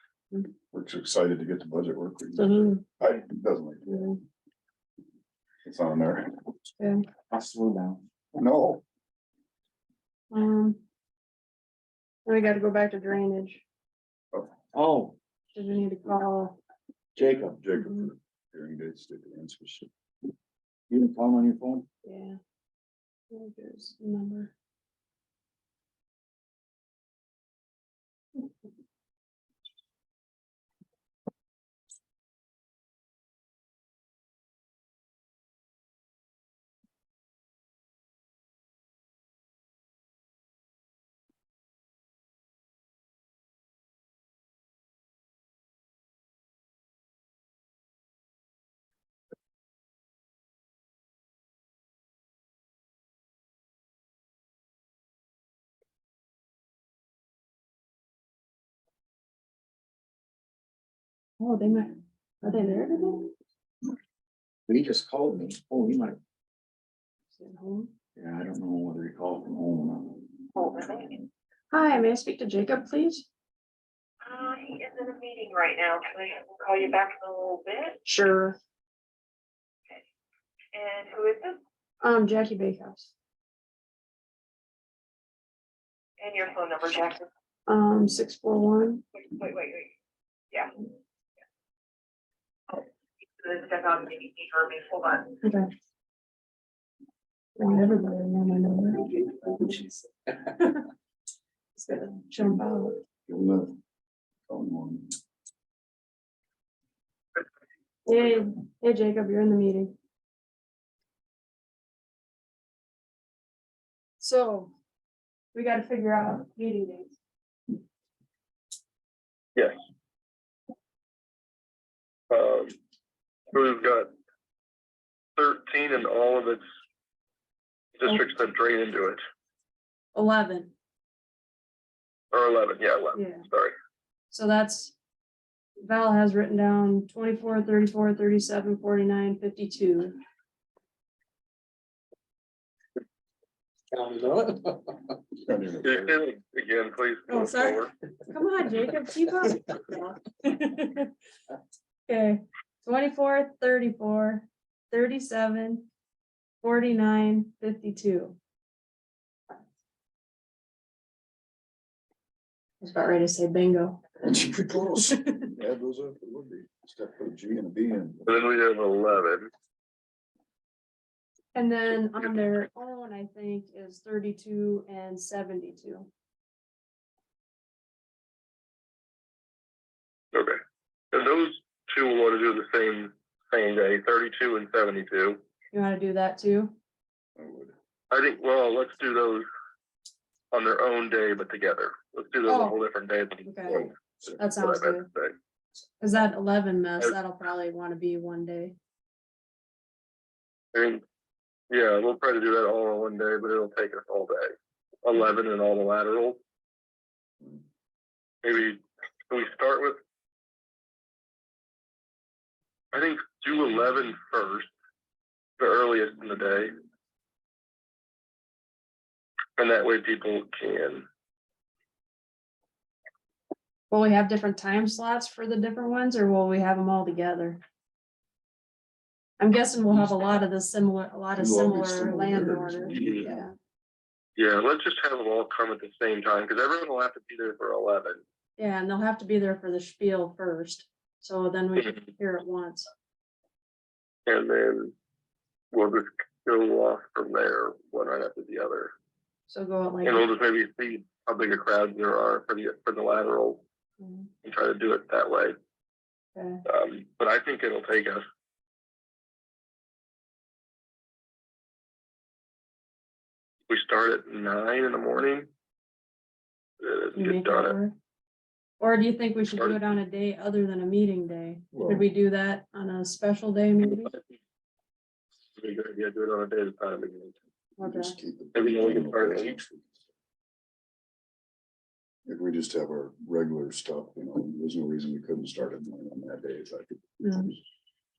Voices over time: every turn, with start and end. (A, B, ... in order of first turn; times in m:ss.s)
0:00.7-0:04.1 A
0:02.4-0:02.8 B
0:03.9-0:04.2 B
0:05.6-0:06.4 A
0:06.8-0:07.0 B
0:07.3-0:08.0 C
0:08.4-0:08.8 A
0:10.3-0:10.8 B
0:12.2-0:13.6 B
0:14.7-0:15.2 C
0:15.5-0:16.6 B
0:17.2-0:17.6 C
0:17.6-0:19.9 A
0:17.8-0:18.1 B
0:20.9-0:21.9 C
0:22.0-0:22.4 B
0:23.3-0:24.5 B
1:01.4-1:03.3 B
1:04.7-1:06.2 C
1:07.3-1:07.9 B
1:08.2-1:10.4 C
1:10.6-1:11.2 D
1:11.7-1:13.2 B
1:14.2-1:18.0 D
1:18.0-1:18.6 B
1:20.7-1:21.6 D
1:22.0-1:23.1 B
1:26.2-1:27.3 D
1:27.7-1:29.0 B
1:29.2-1:29.9 D
1:33.4-1:35.4 D
1:35.4-1:35.7 B
1:37.6-1:40.8 B
1:41.8-1:43.0 B
1:43.3-1:43.8 A
1:44.5-1:45.1 A
1:48.1-1:50.0 B
1:54.2-1:54.7 B
1:55.5-1:57.2 B
2:02.3-2:02.8 E
2:03.5-2:04.1 E
2:05.4-2:06.6 E
2:08.0-2:09.2 E
2:10.2-2:10.7 B
2:12.3-2:13.7 E
2:13.1-2:13.5 B
2:14.3-2:15.0 B
2:15.8-2:20.2 B
2:23.9-2:25.2 C
2:25.4-2:26.1 A
2:25.8-2:27.9 E
2:27.3-2:31.1 B
2:32.1-2:35.9 B
2:36.6-2:38.4 B
2:42.8-2:44.1 B
2:44.2-2:48.3 A
2:48.3-2:49.5 E
2:51.5-2:56.1 B
3:01.1-3:05.4 E
3:05.7-3:06.8 B
3:07.4-3:07.7 A
3:08.1-3:09.5 E
3:10.5-3:15.3 E
3:12.5-3:12.8 B
3:13.5-3:15.1 B
3:13.7-3:14.4 A
3:16.0-3:18.8 B
3:20.7-3:21.0 E
3:21.7-3:24.5 E
3:25.0-3:26.4 E
3:28.4-3:30.0 E
3:32.9-3:34.7 E
3:35.6-3:36.7 E
3:39.6-3:41.1 E
3:43.9-3:47.6 B
3:49.4-3:53.5 B
3:51.4-3:53.4 A
3:53.0-3:53.3 E
3:54.4-3:58.2 E
3:58.6-4:02.9 B
4:04.3-4:04.9 E
4:05.7-4:08.9 E
4:09.5-4:10.2 B
4:10.0-4:13.6 E
4:14.0-4:14.3 B
4:14.4-4:15.6 E
4:16.4-4:16.6 B
4:16.7-4:18.2 E
4:23.7-4:25.5 E
4:26.8-4:27.8 E
4:27.2-4:28.0 B
4:28.8-4:34.1 B
4:31.7-4:32.1 A
4:33.9-4:34.2 E
4:35.6-4:37.4 E
4:37.8-4:38.2 B
4:37.8-4:40.0 A
4:38.6-4:39.6 E
4:42.3-4:47.0 A
4:47.2-4:47.5 B